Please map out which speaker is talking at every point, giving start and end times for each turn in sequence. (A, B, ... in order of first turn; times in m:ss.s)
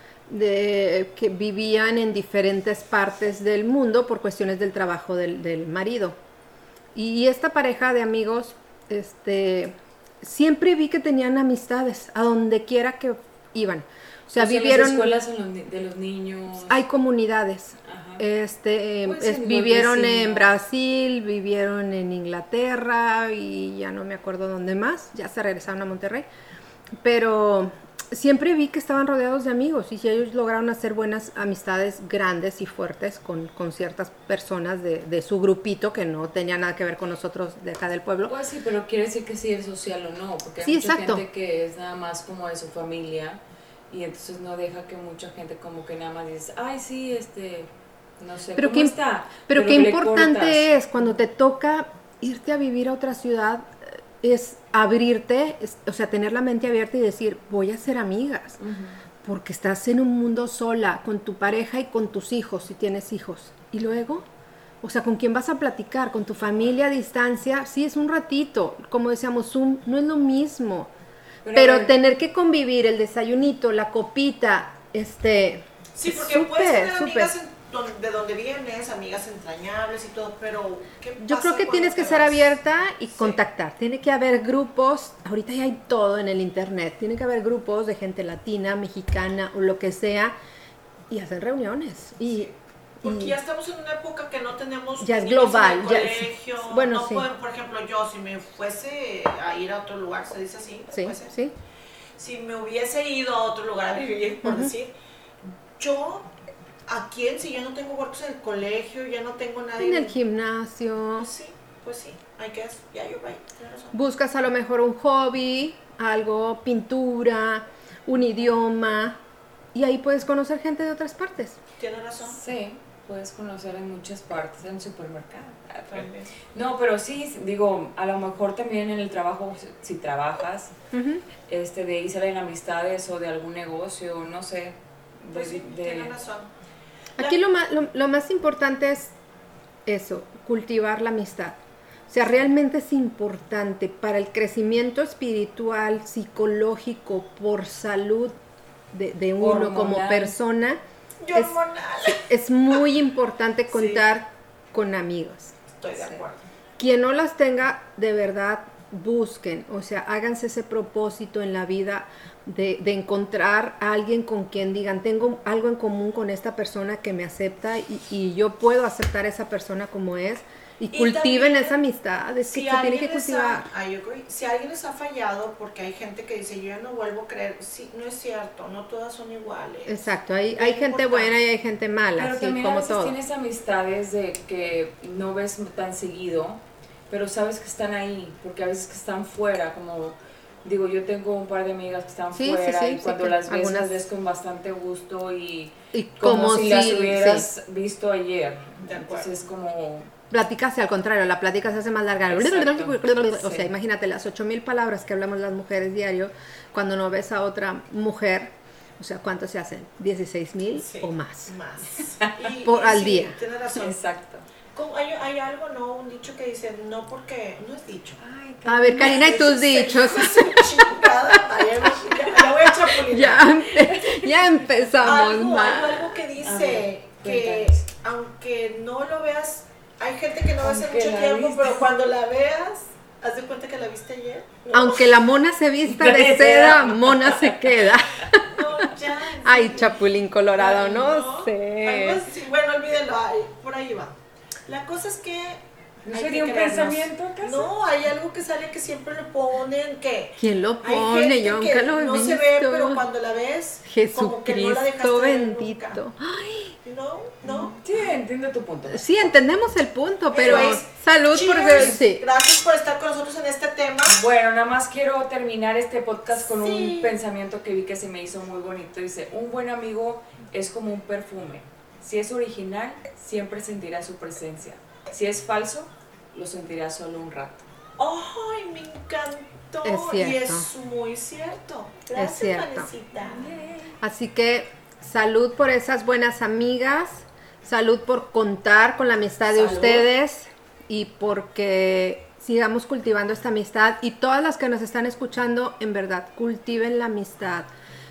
0:00.3-0:06.2 A
0:06.9-0:15.1 A
0:14.4-0:16.8 B
0:16.6-0:26.3 A
0:17.8-0:18.2 B
0:19.0-0:20.5 B
0:27.0-0:38.3 A
0:38.3-0:50.7 B
0:40.6-0:41.2 A
0:48.6-0:49.0 A
0:49.5-0:58.6 A
0:58.6-0:59.0 B
0:59.2-1:04.2 A
1:04.8-1:10.9 A
1:11.4-1:11.9 B
1:11.5-1:17.3 A
1:15.9-1:22.6 C
1:21.2-1:30.3 A
1:23.1-1:23.4 C
1:31.1-1:33.4 A
1:33.0-1:41.3 C
1:35.0-1:37.3 A
1:40.9-1:41.5 A
1:42.2-1:44.9 C
1:44.4-1:44.7 A
1:45.8-1:46.3 C
1:46.9-1:50.1 C
1:49.8-1:51.3 A
1:51.2-1:53.9 C
1:53.9-1:59.2 A
1:59.7-2:01.6 A
2:01.8-2:02.4 C
2:02.2-2:10.7 B
2:05.9-2:06.5 C
2:10.9-2:11.2 A
2:11.5-2:16.1 B
2:15.3-2:16.5 C
2:17.2-2:19.1 A
2:19.8-2:21.6 A
2:22.1-2:28.4 A
2:28.9-2:30.8 A
2:29.4-2:30.4 B
2:31.2-2:32.2 C
2:31.3-2:35.5 A
2:33.7-2:34.0 C
2:35.8-2:36.4 C
2:36.8-2:53.7 A
2:50.9-2:51.8 C
2:52.4-3:01.3 C
2:59.9-3:03.2 A
3:02.2-3:20.1 B
3:12.3-3:14.0 A
3:15.9-3:17.5 A
3:18.8-3:19.3 C
3:20.3-3:31.5 A
3:22.3-3:23.7 B
3:30.8-3:34.0 C
3:32.6-3:33.4 A
3:33.7-3:34.4 B
3:34.7-3:38.2 C
3:38.2-3:39.4 B
3:38.6-3:46.2 A
3:39.0-3:43.7 C
3:45.0-3:55.2 C
3:46.4-3:47.8 B
3:50.6-3:51.8 B
3:54.7-3:58.8 A
3:55.9-3:57.5 C
3:58.5-4:00.0 C
3:59.4-4:02.2 A
4:00.5-4:04.1 C
4:04.7-4:16.0 C
4:06.0-4:07.7 B
4:10.4-4:13.0 A
4:13.8-4:16.8 A
4:16.8-4:17.7 C
4:17.5-4:19.3 B
4:18.9-4:22.2 A
4:20.3-4:24.2 C
4:20.5-4:20.7 B
4:24.0-4:37.6 B
4:26.4-4:27.2 C
4:38.0-4:43.6 C
4:39.8-4:40.7 A
4:42.1-4:42.9 A
4:43.2-4:43.9 B
4:44.0-4:57.7 A
4:49.5-4:50.1 C